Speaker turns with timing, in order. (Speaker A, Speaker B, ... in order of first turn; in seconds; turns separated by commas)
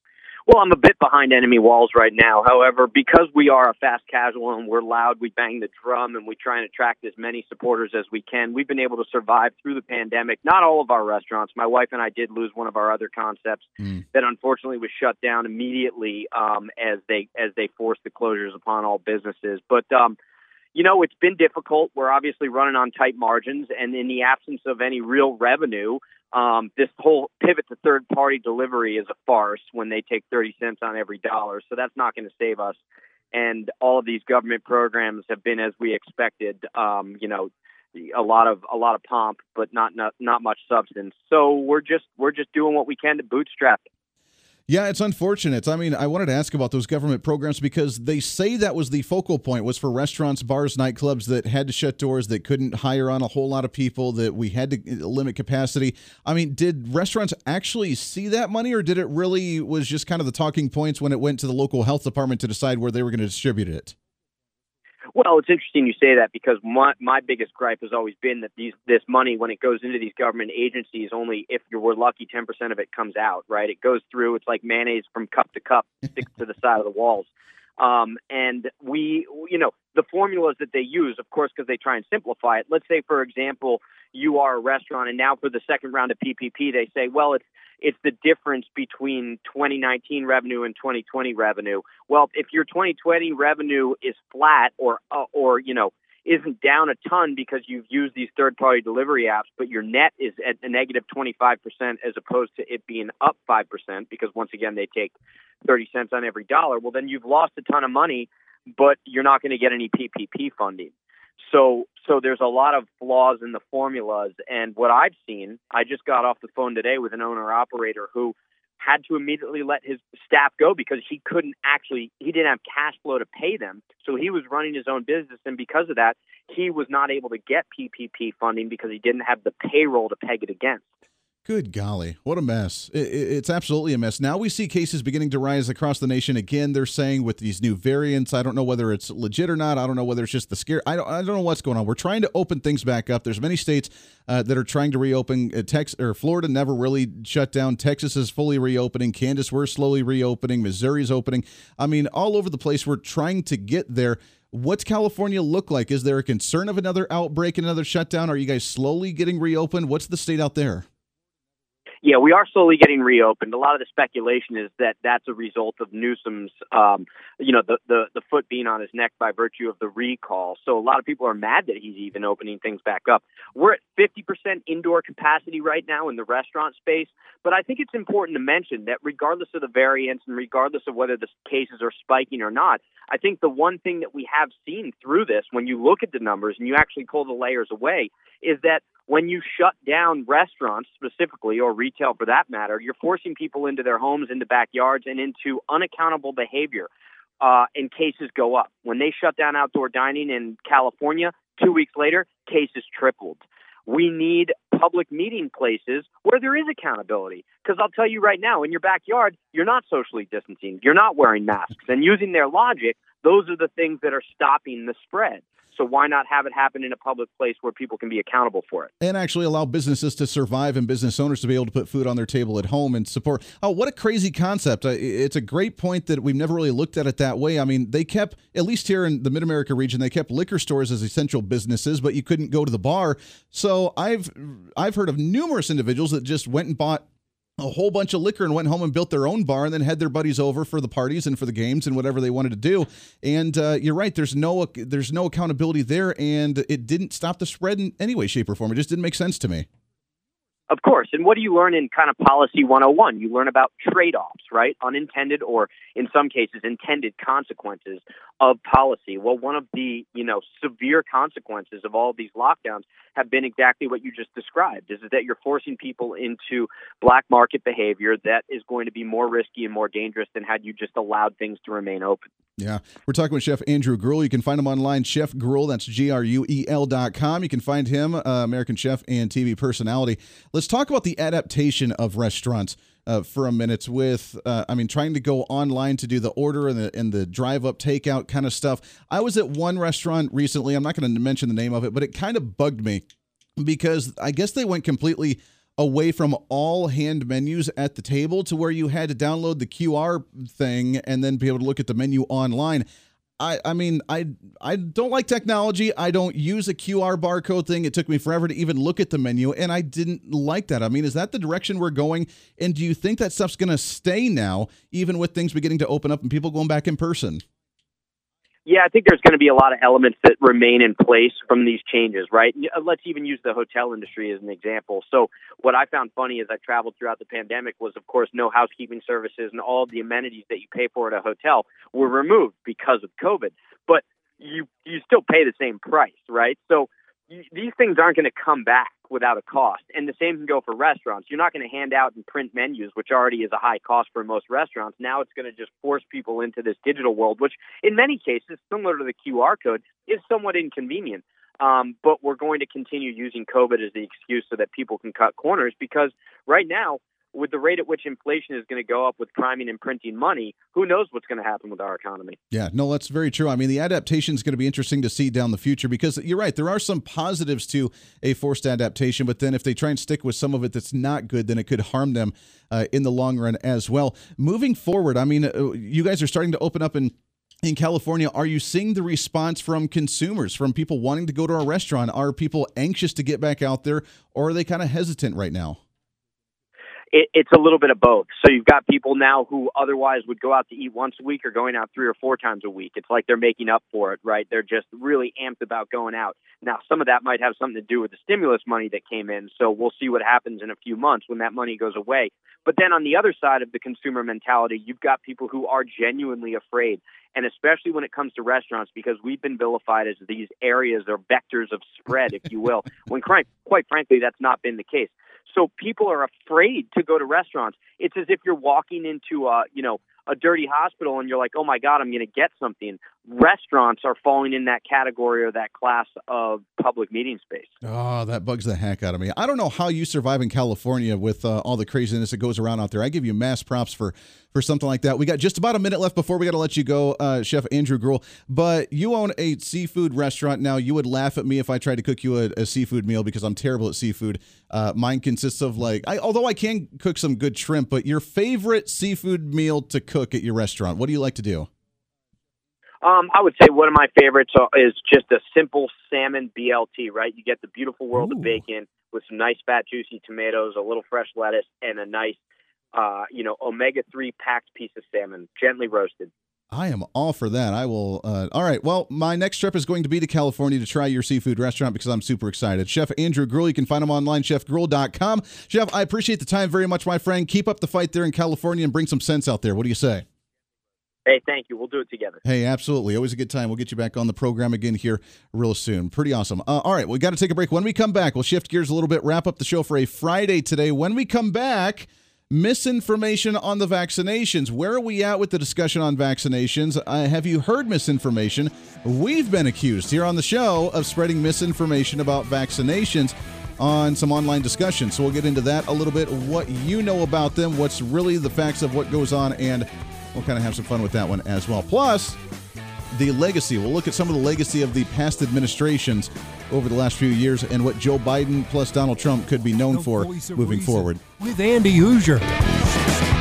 Speaker A: 0.5-20.1, Speaker A: 20.7-32.8, Speaker A: 33.3-43.8, Speaker B: 44.7-63.9, Speaker A: 65.1-105.1, Speaker A: 105.6-110.9, Speaker A: 111.4-130.9, Speaker B: 131.4-160.8, Speaker A: 162.0-196.9, Speaker A: 197.4-218.9, Speaker B: 219.0-237.1, Speaker B: 237.6-249.7, Speaker A: 250.7-272.3, Speaker B: 272.6-293.0, Speaker B: 293.6-302.9, Speaker B: 303.4-317.4, Speaker A: 318.6-362.4, Speaker B: 362.5-377.1, Speaker B: 377.6-385.8, Speaker A: 387.1-427.7, Speaker B: 427.8-451.7, Speaker A: 453.0-462.4, Speaker B: 458.1-458.6, Speaker A: 462.9-466.3, Speaker B: 466.7-480.2, Speaker A: 481.2-482.4, Speaker B: 482.4-512.4, Speaker B: 513.1-521.2, Speaker C: 519.9-522.5